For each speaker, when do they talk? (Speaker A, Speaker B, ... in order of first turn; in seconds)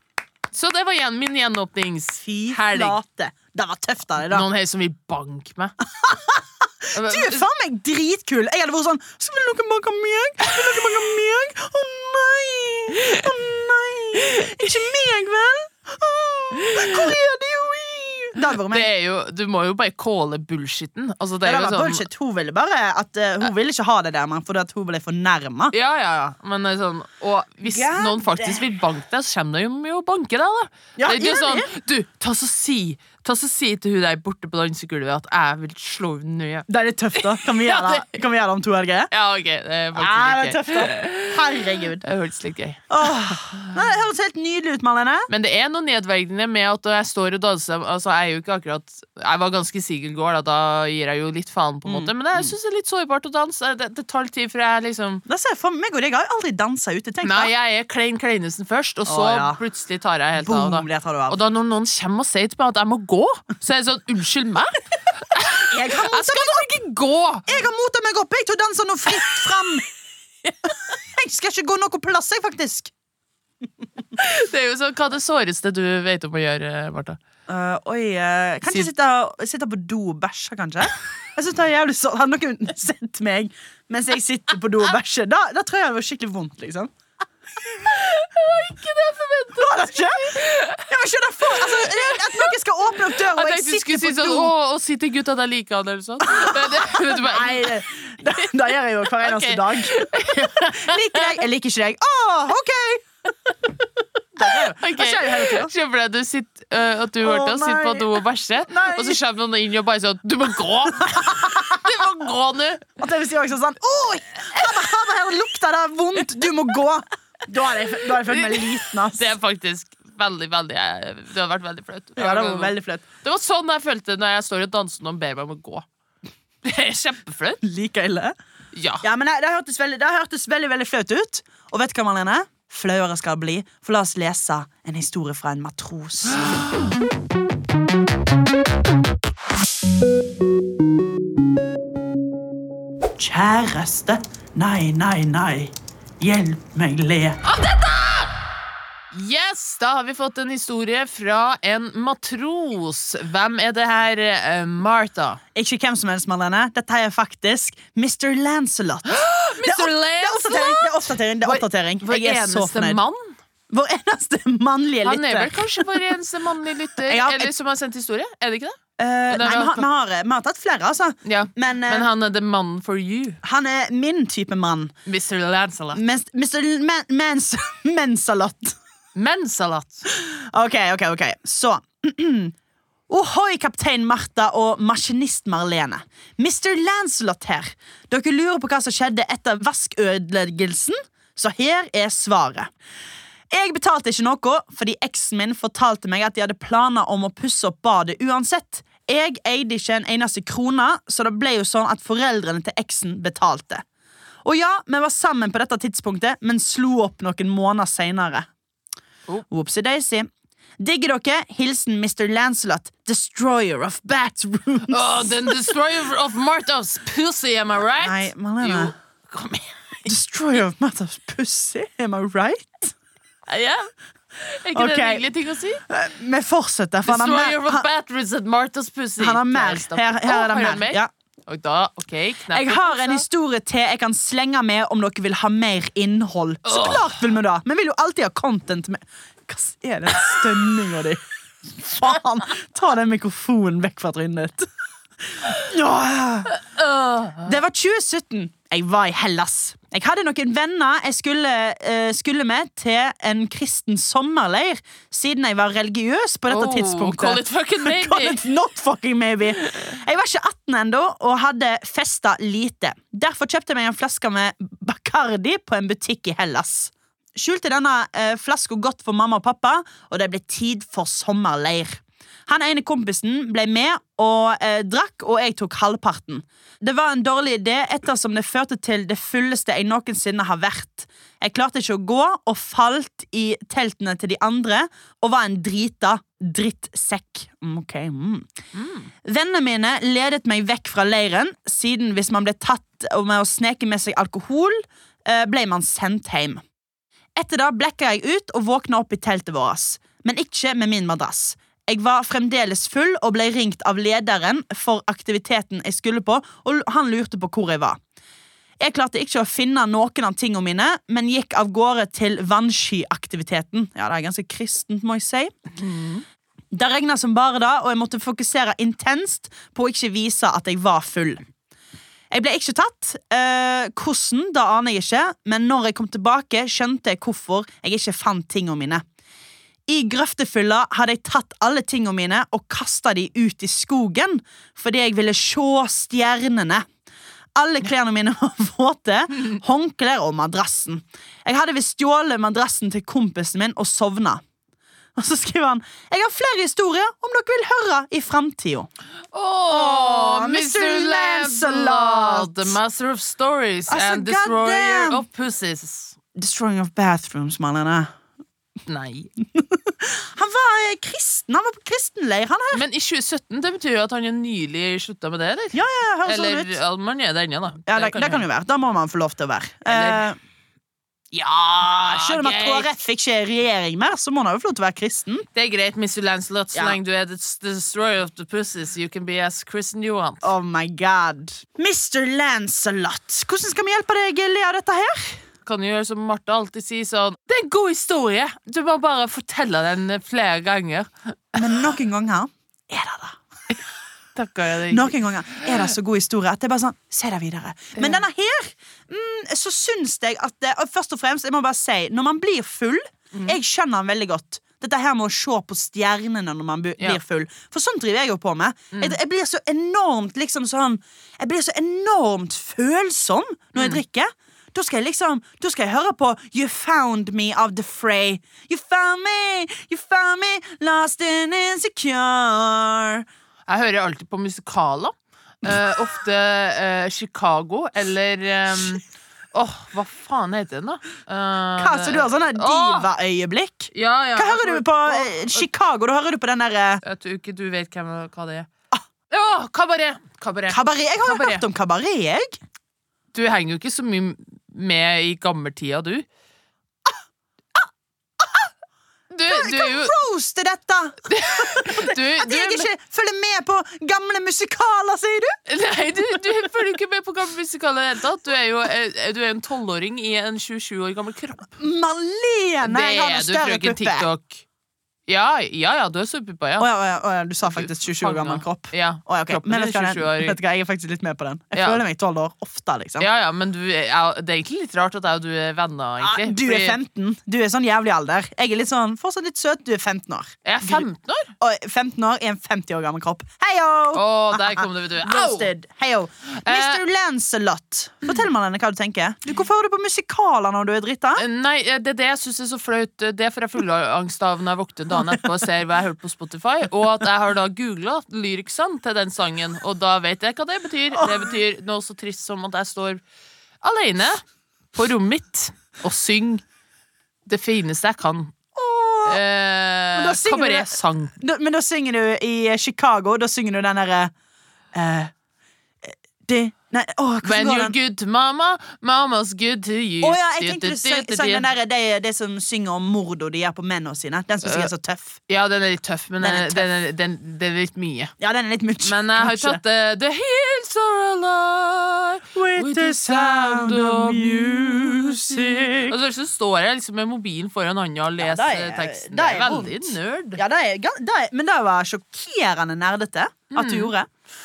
Speaker A: 0.5-3.0, 4.2-5.7, 6.9-7.5, 12.9-13.3, 14.3-14.7, 16.5-17.1, 18.4-22.0, 25.7-38.1, 39.1-43.7, 45.3-55.2, 57.2-67.6, 74.2-77.2, 87.8-90.9, 91.4-92.5, 93.0-97.8, 99.2-101.4, 104.4-112.9, 118.2-125.8, 126.6-127.6, 128.7-129.0, 147.4-148.3, 149.1-155.4, 159.1-163.4, 165.0-168.8, 169.3-169.8, 171.2-173.4, 175.1-176.0, 179.2-180.1, 214.9-220.1, 223.5-225.8, 227.1-233.2, 236.6-237.2, 246.5-247.6, 256.5-258.4, 288.7-289.1, 315.8-316.2, 349.3-356.1, 358.9-359.3, 362.7-368.4, 369.9-370.2, 371.8-372.9, 375.5-380.5, 385.6-391.7, 394.4-395.9, 397.9-398.2, 403.3-403.6, 408.9-409.2, 423.7-433.1, 433.9-435.6, 437.0-438.7, 439.3-441.6, 443.3-446.2, 449.3-450.1, 451.2-452.9, 455.7-461.7, 462.8-464.6, 465.3-466.9, 467.6-470.6, 471.7-472.0, 473.2-477.0, 480.6-481.5, 484.1-485.7, 486.5-487.0, 491.4-503.2, 503.8-504.4, 504.9-506.6, 507.5-508.5, 509.2-511.3, 517.4-521.7, 524.6-524.9, 525.5-528.3, 529.0-540.6, 543.7-544.1
Speaker B: 2.2-4.5, 6.0-18.9, 21.4-25.7, 27.6-28.6, 31.0-31.7, 36.7-39.1, 40.0-42.0, 42.9-45.3, 51.9-52.5, 55.3-57.5, 59.0-59.6, 60.4-61.4, 65.5-66.7, 67.5-69.8, 70.9-72.9, 77.5-86.9, 89.6-94.5, 96.2-103.0, 104.4-105.7, 107.2-109.2, 111.0-111.8, 113.0-119.3, 122.2-123.0, 127.6-128.3, 129.0-136.6, 143.2-147.4, 155.5-163.0, 163.7-166.0, 167.1-167.5, 169.0-172.1, 173.4-174.9, 175.9-178.8, 180.1-182.5, 183.1-192.7, 193.5-203.8, 204.4-208.5, 209.5-210.3, 210.8-215.7, 218.0-218.9, 220.1-222.9, 224.7-225.2, 225.9-227.8, 229.2-231.1, 232.5-244.7, 245.3-246.5, 247.4-288.5, 289.2-296.6, 297.4-308.0, 308.8-315.5, 316.7-321.4, 322.3-329.0, 329.9-336.8, 337.6-344.4, 345.1-348.9, 349.7-352.7, 353.9-355.2, 356.3-358.1, 359.4-362.8, 365.7-366.8, 367.9-370.4, 371.3-375.5, 376.7-377.0, 380.4-385.4, 391.5-393.4, 394.9-423.2, 431.8-437.0, 440.7-442.6, 448.4-448.7, 449.5-455.6, 461.8-464.3, 466.8-473.3, 476.2-481.1, 481.6-491.4, 501.2-501.5, 508.7-509.4, 510.1-514.3, 514.9-515.3, 516.0-517.9, 520.2-525.4, 526.4-526.9, 528.4-529.8, 532.5-536.2, 538.4-544.3